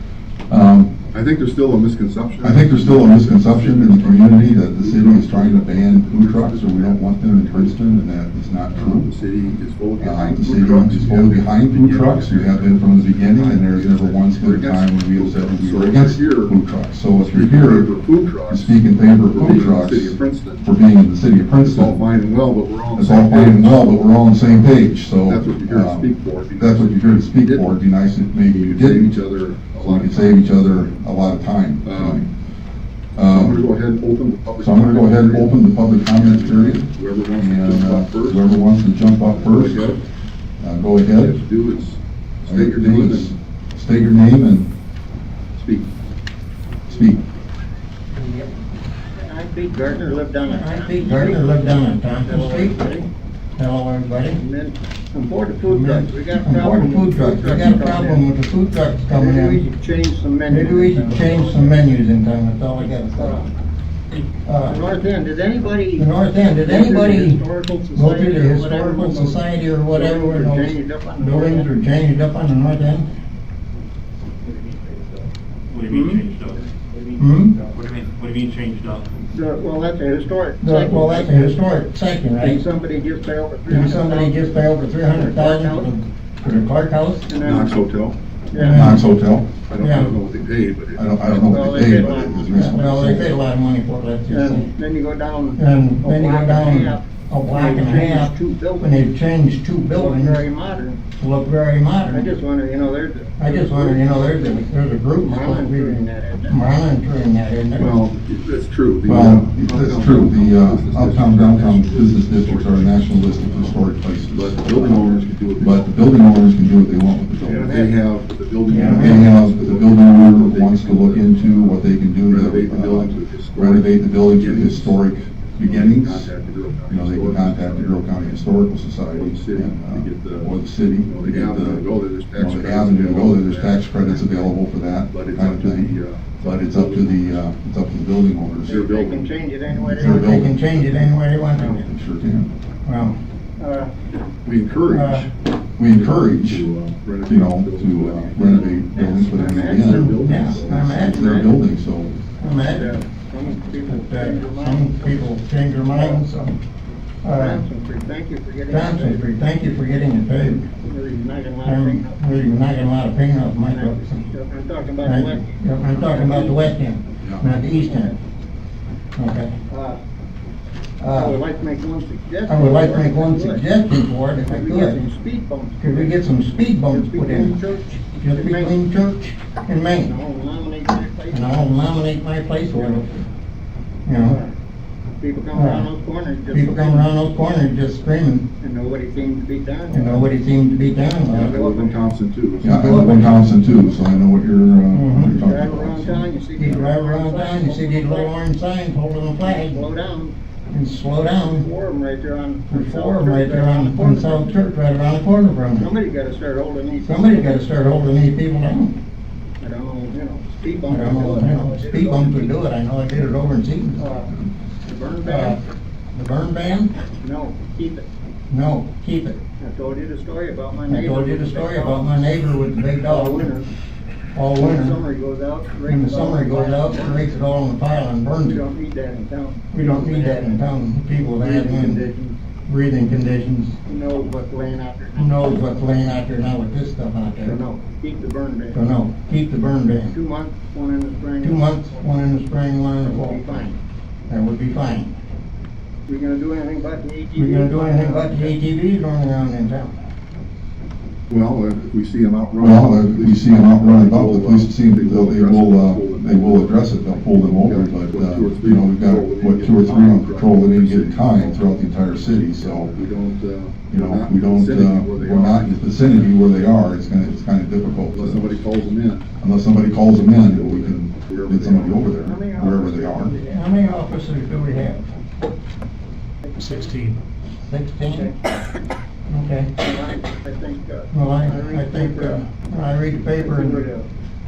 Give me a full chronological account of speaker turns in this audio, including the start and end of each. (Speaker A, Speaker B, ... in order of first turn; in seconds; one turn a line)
Speaker A: 0.5-1.0
Speaker B: 1.1-8.0
Speaker A: 2.4-9.1
Speaker B: 8.7-16.6
Speaker A: 10.0-17.9
Speaker B: 17.1-20.7
Speaker A: 18.5-22.0
Speaker B: 21.6-24.6
Speaker A: 22.9-29.2
Speaker B: 25.2-27.7
Speaker B: 28.5-30.7
Speaker A: 29.7-32.3
Speaker B: 31.8-32.3
Speaker A: 33.2-33.6
Speaker B: 33.3-38.5
Speaker A: 34.6-40.0
Speaker B: 39.3-40.0
Speaker A: 40.6-41.4
Speaker B: 41.1-43.4
Speaker A: 42.5-44.7
Speaker B: 45.5-45.9
Speaker A: 46.9-47.2
Speaker C: 48.2-48.5
Speaker D: 49.2-53.1
Speaker C: 50.4-52.9
Speaker C: 53.6-54.4
Speaker D: 54.3-58.3
Speaker C: 55.7-59.6
Speaker D: 59.1-62.0
Speaker C: 60.5-63.4
Speaker D: 63.1-63.5
Speaker C: 64.4-64.8
Speaker D: 64.7-66.1
Speaker C: 66.0-67.4
Speaker D: 66.6-69.4
Speaker C: 67.9-73.1
Speaker D: 69.9-71.7
Speaker E: 74.4-79.1
Speaker D: 75.9-76.2
Speaker C: 77.2-77.6
Speaker D: 79.3-81.6
Speaker C: 80.6-82.6
Speaker D: 82.4-86.0
Speaker C: 83.7-87.3
Speaker D: 87.3-87.8
Speaker B: 87.4-88.2
Speaker D: 88.5-88.9
Speaker C: 88.5-89.1
Speaker A: 88.7-89.5
Speaker B: 89.7-92.2
Speaker C: 89.8-90.1
Speaker A: 91.0-93.3
Speaker D: 91.3-93.1
Speaker C: 92.5-94.7
Speaker D: 94.3-99.0
Speaker C: 95.6-100.4
Speaker D: 99.9-101.0
Speaker C: 101.2-102.4
Speaker D: 102.1-104.7
Speaker C: 103.4-108.0
Speaker D: 105.2-106.6
Speaker B: 107.8-113.8
Speaker A: 109.0-118.0
Speaker B: 114.3-115.9
Speaker B: 117.4-125.0
Speaker C: 118.7-119.2
Speaker A: 118.8-126.3
Speaker B: 125.6-128.1
Speaker A: 126.9-138.8
Speaker B: 129.1-130.5
Speaker B: 131.1-134.5
Speaker B: 135.1-137.5
Speaker D: 138.6-140.3
Speaker B: 138.6-139.3
Speaker A: 139.7-140.9
Speaker C: 139.7-141.8
Speaker A: 141.5-142.5
Speaker C: 142.8-143.2
Speaker D: 143.6-143.9
Speaker B: 144.4-145.3
Speaker C: 144.9-145.3
Speaker A: 145.8-146.7
Speaker B: 145.9-150.8
Speaker A: 147.2-152.2
Speaker D: 148.9-150.1
Speaker C: 149.9-151.4
Speaker D: 150.8-151.6
Speaker C: 152.4-152.9
Speaker D: 152.5-155.1
Speaker C: 153.7-156.6
Speaker D: 155.9-156.2
Speaker C: 157.2-157.6
Speaker D: 157.3-159.3
Speaker C: 158.7-160.7
Speaker D: 160.8-162.2
Speaker C: 161.6-164.2
Speaker D: 163.7-166.7
Speaker C: 165.0-168.1
Speaker D: 167.6-168.2
Speaker C: 169.2-169.6
Speaker D: 169.7-170.0
Speaker C: 171.0-171.4
Speaker D: 171.1-173.7
Speaker C: 172.5-175.0
Speaker D: 174.4-176.2
Speaker C: 175.8-177.6
Speaker D: 176.9-178.8
Speaker C: 178.1-180.1
Speaker D: 180.0-182.0
Speaker C: 181.3-183.2
Speaker D: 182.7-183.0
Speaker C: 184.1-184.4
Speaker D: 184.2-184.6
Speaker D: 185.2-187.1
Speaker C: 185.5-185.9
Speaker C: 186.5-188.5
Speaker D: 188.6-190.3
Speaker C: 189.9-191.6
Speaker B: 191.3-193.4
Speaker D: 191.3-192.0
Speaker C: 192.6-193.4
Speaker A: 192.6-196.3
Speaker C: 194.9-195.4
Speaker D: 195.3-198.3
Speaker C: 196.6-199.8
Speaker D: 199.4-200.3
Speaker C: 200.7-201.7
Speaker D: 201.2-204.8
Speaker C: 202.7-205.9
Speaker D: 205.8-207.6
Speaker C: 207.0-209.0
Speaker D: 209.6-212.6
Speaker C: 210.9-214.1
Speaker D: 214.0-214.3
Speaker D: 214.8-215.6
Speaker C: 215.2-215.6
Speaker C: 216.1-216.9
Speaker D: 217.2-218.1
Speaker C: 218.5-219.4
Speaker D: 219.6-222.1
Speaker C: 220.9-223.6
Speaker D: 223.0-223.7
Speaker C: 224.3-225.0
Speaker D: 224.6-227.4
Speaker C: 225.8-228.6
Speaker D: 228.4-230.6
Speaker C: 229.7-232.1
Speaker D: 231.4-232.4
Speaker C: 232.7-233.8
Speaker D: 233.9-235.9
Speaker C: 235.2-237.6
Speaker D: 237.4-238.8
Speaker C: 238.7-240.2
Speaker D: 240.1-242.2
Speaker C: 241.4-243.8
Speaker D: 243.0-243.8
Speaker C: 244.3-245.1
Speaker D: 246.1-248.6
Speaker C: 247.3-250.0
Speaker B: 251.3-261.6
Speaker A: 252.6-263.0
Speaker B: 262.5-266.3
Speaker A: 263.9-268.6
Speaker B: 268.1-269.3
Speaker A: 269.4-273.4
Speaker B: 270.3-272.1
Speaker D: 272.2-273.9
Speaker C: 273.4-275.1
Speaker D: 276.5-276.9
Speaker E: 276.6-277.1
Speaker C: 277.7-278.3
Speaker D: 278.1-278.4
Speaker C: 279.3-279.7
Speaker D: 279.8-282.5
Speaker C: 281.1-283.9
Speaker D: 283.2-284.1